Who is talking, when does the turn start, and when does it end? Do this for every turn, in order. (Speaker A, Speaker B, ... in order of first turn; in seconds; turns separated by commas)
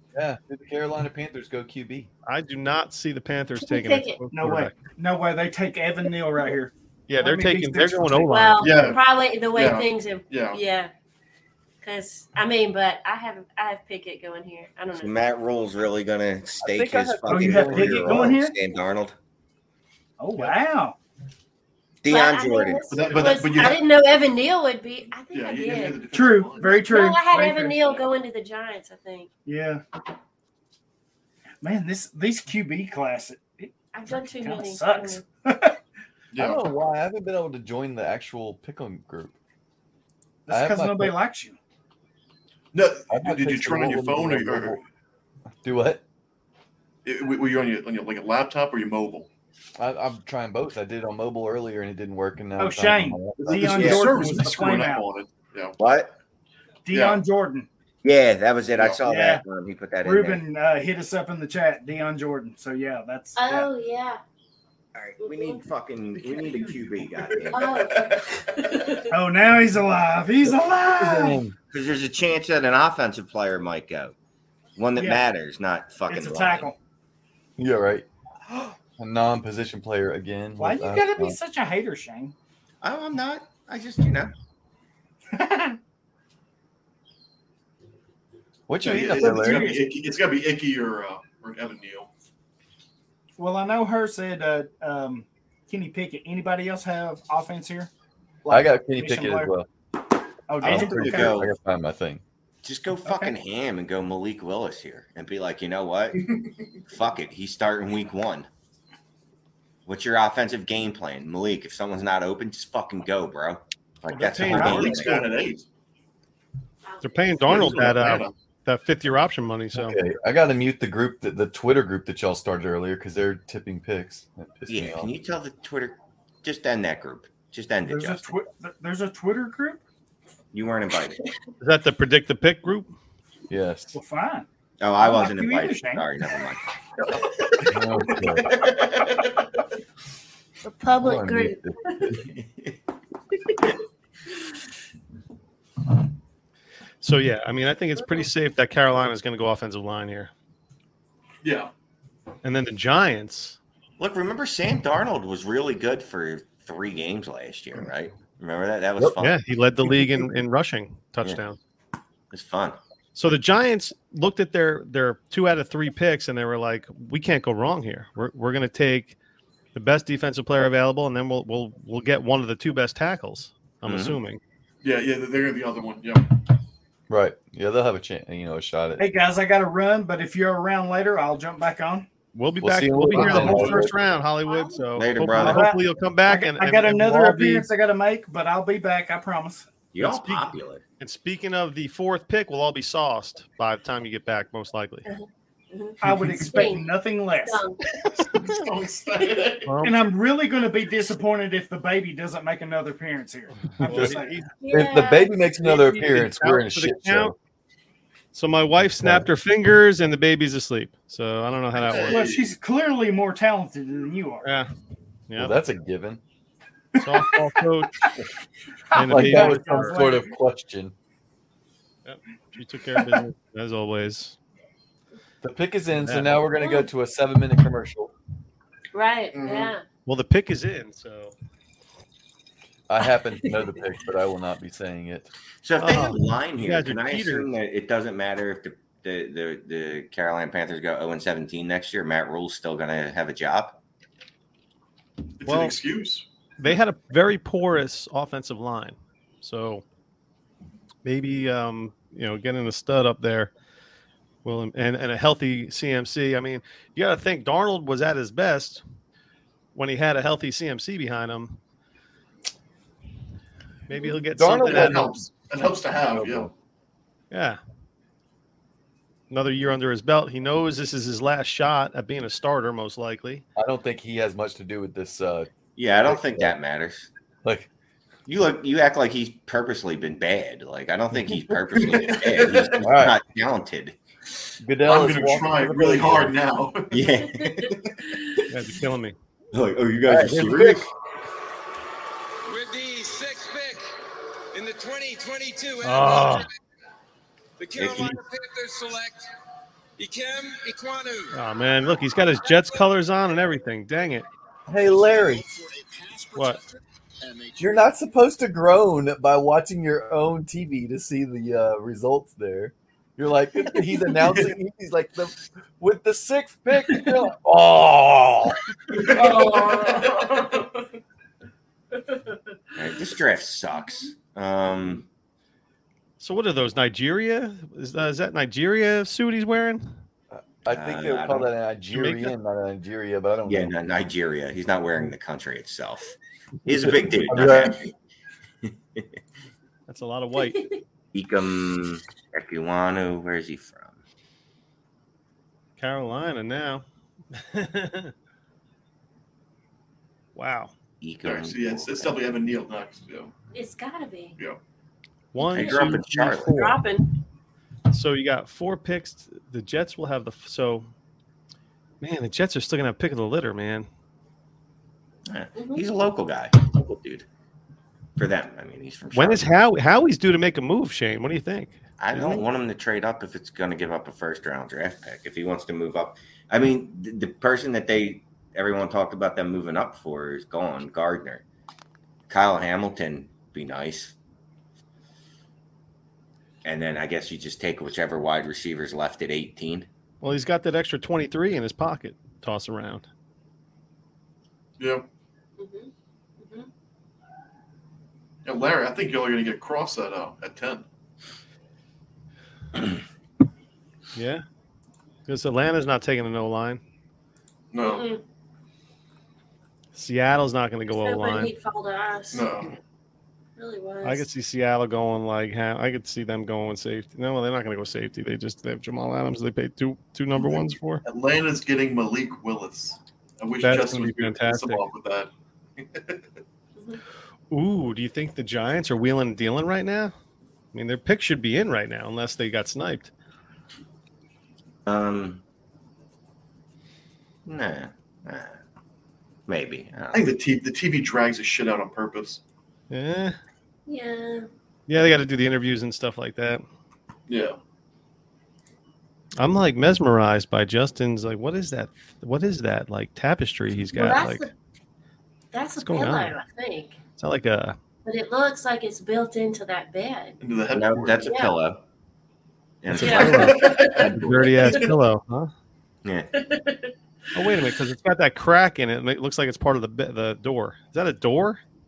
Speaker A: 0.1-2.1, Speaker B: 2.2-4.7, Speaker C: 3.6-4.2, Speaker D: 4.3-8.3, Speaker B: 7.1-8.8, Speaker C: 8.3-10.9, Speaker E: 8.6-9.0, Speaker E: 9.5-10.6, Speaker C: 11.8-15.1, Speaker F: 15.0-19.1, Speaker A: 16.6-18.3, Speaker D: 17.2-18.6, Speaker D: 20.2-20.9, Speaker F: 22.0-23.4, Speaker C: 22.1-26.1, Speaker E: 22.9-23.8, Speaker E: 25.3-26.9, Speaker D: 26.1-28.0, Speaker C: 26.7-29.3, Speaker D: 29.4-29.8, Speaker D: 31.6-35.8, Speaker C: 33.9-35.2, Speaker E: 36.3-36.7, Speaker A: 36.4-39.3, Speaker D: 40.5-41.6, Speaker A: 40.5-41.1, Speaker E: 42.7-44.8, Speaker A: 43.1-44.8, Speaker A: 45.6-46.0, Speaker E: 47.0-49.3, Speaker A: 49.8-53.8, Speaker D: 52.6-55.1, Speaker E: 53.4-55.7, Speaker F: 53.7-54.1, Speaker F: 55.8-56.1, Speaker D: 56.9-57.7, Speaker E: 56.9-57.2, Speaker F: 58.0-60.4, Speaker D: 59.0-59.4, Speaker D: 60.0-63.7, Speaker C: 63.4-64.2, Speaker F: 64.9-68.3, Speaker C: 65.2-65.6, Speaker C: 66.2-66.5, Speaker E: 67.3-67.8, Speaker C: 67.5-69.1, Speaker D: 69.1-71.4, Speaker A: 70.5-71.5, Speaker F: 71.7-74.1, Speaker F: 74.8-76.7, Speaker D: 75.0-75.2, Speaker D: 76.1-76.8, Speaker A: 77.6-78.0, Speaker A: 79.0-81.4, Speaker D: 80.6-82.3, Speaker F: 82.8-84.3, Speaker D: 85.3-85.8, Speaker A: 88.7-89.8, Speaker E: 88.8-92.1, Speaker D: 88.9-89.9, Speaker D: 93.4-97.9, Speaker D: 98.4-99.5, Speaker A: 98.5-99.7, Speaker D: 100.5-101.4, Speaker F: 100.6-101.5, Speaker A: 100.6-102.2, Speaker F: 102.6-106.2, Speaker D: 103.0-103.3, Speaker E: 106.1-106.8, Speaker F: 106.9-108.5, Speaker F: 109.9-115.2, Speaker B: 114.1-115.3, Speaker E: 114.5-115.6, Speaker C: 116.8-117.6, Speaker B: 117.0-120.0, Speaker E: 117.4-118.3, Speaker A: 119.7-125.1, Speaker F: 124.7-128.3, Speaker D: 127.8-129.8, Speaker F: 130.5-131.2, Speaker B: 131.6-132.9, Speaker A: 133.5-133.9, Speaker D: 133.9-134.5, Speaker F: 134.8-136.6, Speaker D: 135.0-136.1, Speaker E: 137.0-139.4, Speaker A: 137.7-138.5, Speaker C: 140.6-142.2, Speaker A: 141.0-142.2, Speaker F: 142.2-142.7, Speaker B: 147.0-150.3, Speaker E: 151.4-151.7, Speaker B: 152.4-153.6, Speaker F: 154.0-159.4, Speaker B: 159.2-161.6, Speaker F: 162.3-162.8, Speaker B: 163.1-169.2, Speaker B: 169.7-174.4, Speaker F: 173.8-174.2, Speaker E: 174.8-176.2, Speaker A: 177.1-179.0, Speaker D: 179.0-182.1, Speaker B: 182.3-187.7, Speaker A: 182.6-183.9, Speaker D: 183.1-183.9, Speaker C: 184.4-185.0, Speaker F: 184.9-185.7, Speaker D: 185.3-189.7, Speaker F: 189.9-190.8, Speaker B: 190.0-195.1, Speaker C: 195.0-196.9, Speaker D: 196.0-197.7, Speaker E: 196.1-196.5, Speaker C: 197.4-197.8, Speaker E: 198.3-199.8, Speaker B: 199.7-200.1, Speaker D: 199.8-204.5, Speaker B: 203.8-204.4, Speaker A: 203.9-204.1, Speaker C: 204.6-205.5, Speaker A: 204.7-207.3, Speaker B: 205.6-207.3, Speaker B: 208.3-212.3, Speaker A: 209.0-209.3, Speaker E: 211.8-212.5, Speaker D: 211.9-214.5, Speaker B: 214.4-214.7, Speaker B: 215.3-215.6, Speaker A: 215.3-216.2, Speaker D: 216.9-217.5, Speaker B: 217.0-218.0, Speaker D: 218.9-220.3, Speaker B: 218.9-220.2, Speaker A: 219.1-220.9, Speaker B: 222.0-224.3, Speaker A: 225.4-228.1, Speaker B: 226.0-226.4, Speaker C: 226.5-226.9, Speaker C: 228.9-229.8, Speaker E: 229.3-229.7, Speaker B: 230.1-231.3, Speaker A: 232.9-235.3, Speaker F: 235.6-243.8, Speaker B: 235.8-237.5, Speaker E: 245.4-246.7, Speaker B: 245.4-245.8, Speaker B: 246.6-249.8, Speaker B: 251.0-253.5, Speaker B: 254.4-258.8, Speaker B: 259.7-261.6, Speaker B: 263.9-265.1, Speaker A: 264.3-265.5, Speaker E: 264.5-266.5, Speaker A: 266.0-266.5, Speaker B: 267.3-267.6, Speaker B: 269.3-273.4, Speaker A: 273.6-275.5, Speaker F: 275.8-277.1, Speaker A: 276.0-276.5, Speaker A: 277.4-277.7, Speaker F: 278.2-284.0, Speaker A: 281.3-281.6, Speaker E: 281.8-282.8, Speaker A: 282.7-283.2, Speaker A: 284.6-286.4, Speaker E: 284.8-287.0, Speaker F: 286.9-288.4, Speaker B: 288.5-289.1, Speaker F: 289.5-290.9, Speaker A: 290.0-290.9, Speaker G: 292.4-293.8, Speaker G: 294.5-296.5, Speaker B: 295.8-296.5, Speaker G: 297.6-299.3, Speaker F: 297.8-298.2, Speaker G: 300.0-301.4, Speaker B: 301.3-304.3, Speaker G: 302.4-302.9, Speaker A: 304.7-305.4, Speaker G: 304.9-307.7, Speaker A: 307.6-318.6, Speaker E: 318.9-320.6, Speaker C: 319.0-320.7, Speaker C: 322.1-322.4, Speaker F: 322.8-325.0, Speaker B: 326.2-329.9, Speaker A: 330.3-333.7, Speaker F: 330.7-331.5, Speaker B: 331.9-332.3, Speaker F: 333.4-337.9, Speaker A: 336.7-337.8, Speaker F: 338.7-339.1, Speaker B: 339.9-340.7, Speaker C: 340.5-340.8, Speaker F: 341.1-344.0, Speaker B: 345.8-348.1, Speaker B: 350.3-350.7, Speaker F: 351.0-352.2, Speaker E: 351.2-353.3, Speaker C: 353.5-354.4, Speaker B: 355.3-356.8, Speaker F: 355.4-356.5, Speaker C: 355.4-357.1, Speaker B: 357.9-360.9, Speaker B: 362.0-363.9, Speaker F: 365.3-367.2, Speaker C: 365.5-365.8, Speaker F: 368.2-369.4, Speaker B: 369.1-372.4, Speaker F: 372.0-381.4, Speaker F: 382.3-384.1, Speaker F: 386.6-389.9, Speaker B: 390.2-393.1, Speaker E: 394.8-395.0, Speaker C: 395.6-396.7, Speaker E: 398.4-400.8, Speaker B: 404.1-404.4, Speaker B: 405.3-406.8, Speaker E: 407.7-408.1, Speaker C: 407.8-408.2, Speaker B: 409.9-411.5, Speaker C: 410.9-412.6, Speaker E: 412.3-412.7, Speaker C: 413.6-414.2, Speaker B: 414.0-421.0, Speaker E: 420.4-426.3, Speaker B: 423.6-424.8, Speaker B: 427.5-430.1, Speaker B: 430.7-433.1, Speaker F: 434.9-435.4, Speaker F: 437.4-438.6, Speaker F: 439.5-440.3, Speaker E: 440.1-442.4, Speaker B: 442.9-443.4, Speaker C: 443.9-444.5, Speaker B: 444.9-446.6, Speaker E: 447.3-447.6, Speaker B: 449.4-454.4, Speaker C: 453.9-454.5, Speaker C: 455.5-457.0, Speaker B: 455.8-456.3, Speaker B: 457.1-457.8, Speaker C: 458.0-460.4, Speaker E: 460.4-461.3, Speaker F: 460.7-461.8, Speaker C: 461.2-461.6, Speaker F: 462.8-464.8, Speaker B: 462.9-465.5, Speaker C: 463.0-464.1, Speaker E: 463.3-464.9, Speaker C: 466.4-466.9, Speaker B: 467.3-471.6